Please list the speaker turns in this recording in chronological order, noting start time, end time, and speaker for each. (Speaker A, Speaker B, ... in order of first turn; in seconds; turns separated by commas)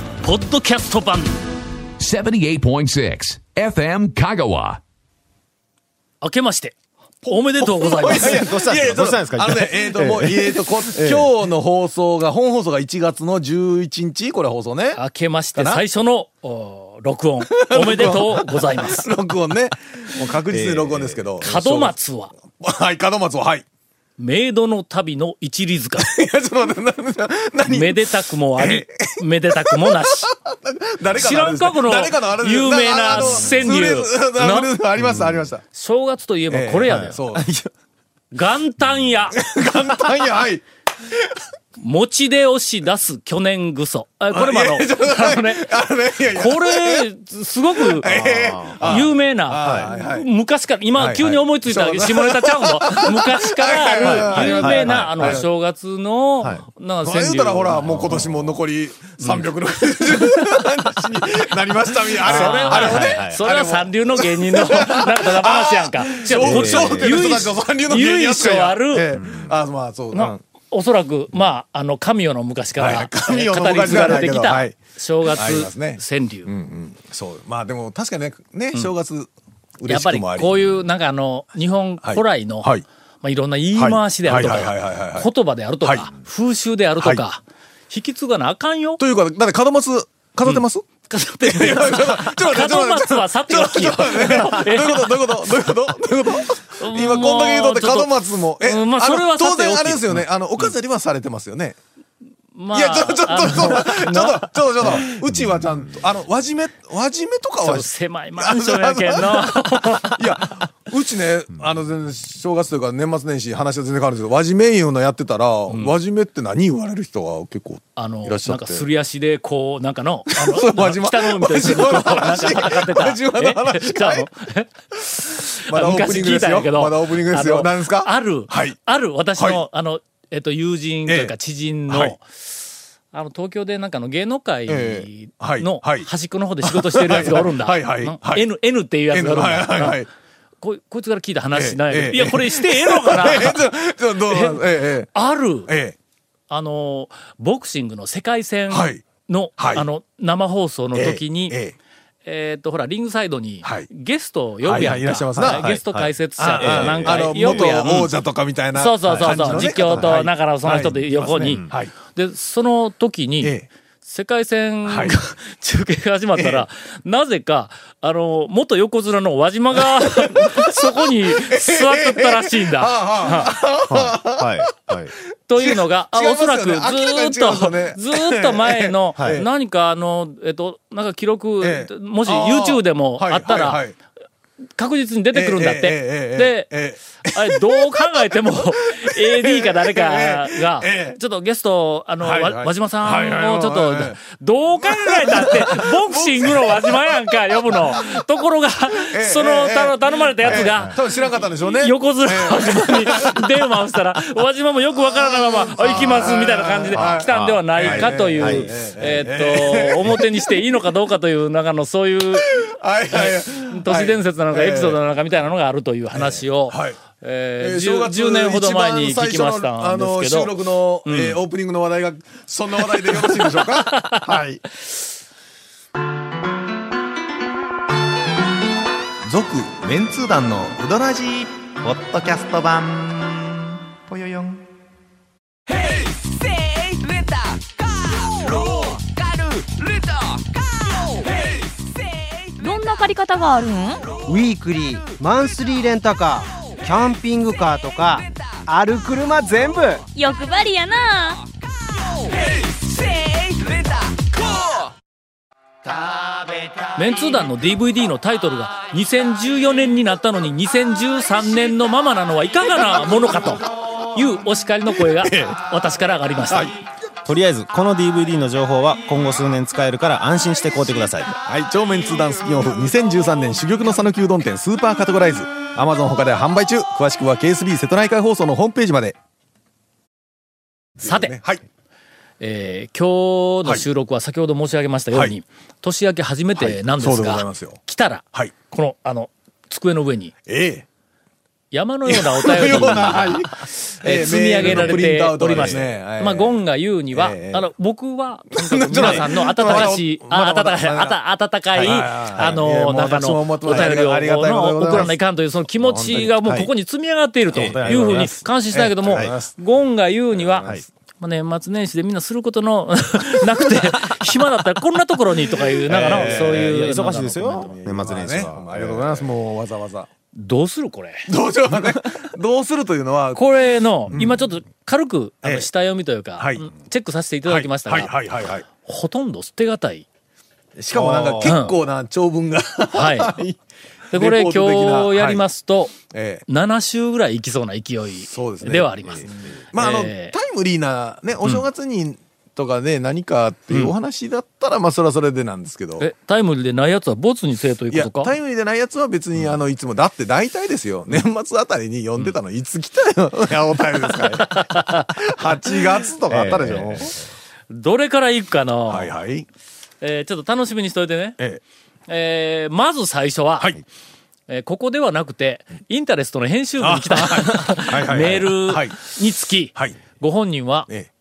Speaker A: 0.2-1.4, Speaker B: 2.0-4.8, Speaker A: 6.2-8.4, Speaker C: 7.2-15.0, Speaker D: 8.1-11.3, Speaker A: 14.9-19.1, Speaker C: 15.6-15.8, Speaker C: 17.5-21.9, Speaker D: 20.5-21.2, Speaker A: 21.4-22.3, Speaker C: 22.5-23.6, Speaker A: 24.2-26.1, Speaker C: 26.0-35.6, Speaker A: 27.7-30.3, Speaker A: 31.1-34.7, Speaker D: 35.0-35.4, Speaker A: 35.7-37.2, Speaker C: 36.5-37.5, Speaker D: 36.9-37.7, Speaker A: 38.3-39.4, Speaker C: 39.3-41.3, Speaker A: 41.8-45.7, Speaker C: 44.3-47.1, Speaker A: 46.3-48.1, Speaker C: 47.8-50.3, Speaker D: 48.0-49.0, Speaker A: 48.8-58.2, Speaker D: 49.6-49.9, Speaker C: 51.0-55.4, Speaker D: 54.2-55.4, Speaker C: 57.0-70.4, Speaker D: 57.9-58.6, Speaker A: 60.1-60.7, Speaker A: 62.2-69.2, Speaker D: 62.2-63.4, Speaker D: 66.3-67.5, Speaker D: 69.2-69.5, Speaker A: 70.1-76.5, Speaker C: 72.8-79.3, Speaker C: 79.8-80.7, Speaker A: 79.9-89.0, Speaker C: 82.0-82.8, Speaker C: 83.8-85.3, Speaker C: 85.8-86.1, Speaker C: 89.0-90.9, Speaker A: 90.4-95.5, Speaker C: 91.4-101.8, Speaker A: 96.8-98.1, Speaker A: 98.6-100.7, Speaker A: 102.5-105.0, Speaker C: 102.7-118.8, Speaker A: 107.6-110.5, Speaker A: 115.7-115.9, Speaker A: 118.0-132.5, Speaker C: 120.3-124.3, Speaker C: 125.2-128.8, Speaker C: 129.4-129.6, Speaker C: 131.1-131.3, Speaker C: 131.9-132.2, Speaker A: 133.1-140.0, Speaker C: 134.7-136.1, Speaker C: 136.6-138.4, Speaker C: 139.1-140.1, Speaker A: 140.6-143.6, Speaker C: 141.5-145.1, Speaker A: 144.3-144.6, Speaker A: 145.1-145.7, Speaker C: 145.7-145.9, Speaker A: 146.5-151.6, Speaker C: 148.7-149.0, Speaker C: 149.6-149.8, Speaker C: 150.9-151.7, Speaker A: 152.2-158.2, Speaker C: 153.6-153.9, Speaker C: 154.6-155.7, Speaker D: 155.4-157.7, Speaker C: 156.4-161.9, Speaker A: 158.7-173.5, Speaker D: 159.1-160.1, Speaker D: 161.5-161.7, Speaker C: 163.4-163.7, Speaker C: 164.9-165.1, Speaker C: 166.3-166.6, Speaker C: 170.2-175.0, Speaker D: 173.9-175.1, Speaker A: 175.5-183.8, Speaker C: 175.6-179.5, Speaker C: 181.6-183.9, Speaker A: 184.8-201.0, Speaker C: 185.3-191.2, Speaker C: 192.2-194.2, Speaker C: 194.8-197.2, Speaker C: 197.7-198.2, Speaker C: 199.1-203.5, Speaker D: 200.4-200.9, Speaker A: 201.7-212.6, Speaker C: 205.0-210.6, Speaker D: 206.9-208.7, Speaker C: 212.4-215.0, Speaker A: 213.1-220.5, Speaker C: 216.1-217.0, Speaker C: 217.6-224.6, Speaker A: 221.1-221.4, Speaker A: 222.8-224.4, Speaker C: 229.3-229.8, Speaker E: 229.8-234.6, Speaker F: 242.6-244.1, Speaker G: 244.2-250.0, Speaker F: 250.1-251.4, Speaker A: 256.9-266.7, Speaker C: 265.0-265.6, Speaker D: 267.2-271.4, Speaker C: 271.4-279.1, Speaker C: 281.0-281.6, Speaker A: 281.0-281.4, Speaker A: 282.4-290.3, Speaker C: 286.6-287.8, Speaker C: 290.5-290.8, Speaker A: 291.7-317.7, Speaker C: 292.1-296.6, Speaker D: 294.6-295.0, Speaker D: 295.5-295.8, Speaker C: 297.1-297.7, Speaker C: 298.5-301.2, Speaker D: 299.0-299.2, Speaker C: 301.7-305.1, Speaker D: 303.7-303.9, Speaker C: 305.8-306.3, Speaker D: 306.4-306.7, Speaker D: 307.5-308.4, Speaker C: 308.7-309.5, Speaker D: 309.1-309.3, Speaker C: 310.4-310.8, Speaker C: 315.9-317.0, Speaker D: 315.9-319.3, Speaker C: 317.6-320.1, Speaker A: 320.3-321.3, Speaker C: 321.3-323.4, Speaker A: 323.4-328.1, Speaker C: 324.1-324.4, Speaker C: 326.4-326.7, Speaker C: 327.5-328.6, Speaker A: 328.7-330.1, Speaker C: 330.8-333.6, Speaker D: 330.9-331.5, Speaker A: 331.4-331.8, Speaker A: 332.9-333.4, Speaker C: 334.1-335.4, Speaker A: 334.1-335.9, Speaker C: 336.1-336.4, Speaker A: 336.5-340.3, Speaker C: 338.3-346.1, Speaker D: 339.1-339.5, Speaker A: 346.0-348.3, Speaker C: 347.9-357.2, Speaker A: 354.2-355.1, Speaker D: 356.3-357.2, Speaker A: 357.7-359.1, Speaker C: 358.9-359.4, Speaker A: 360.0-361.4, Speaker A: 362.1-363.8, Speaker A: 364.5-370.9, Speaker C: 366.8-369.0, Speaker C: 369.7-370.0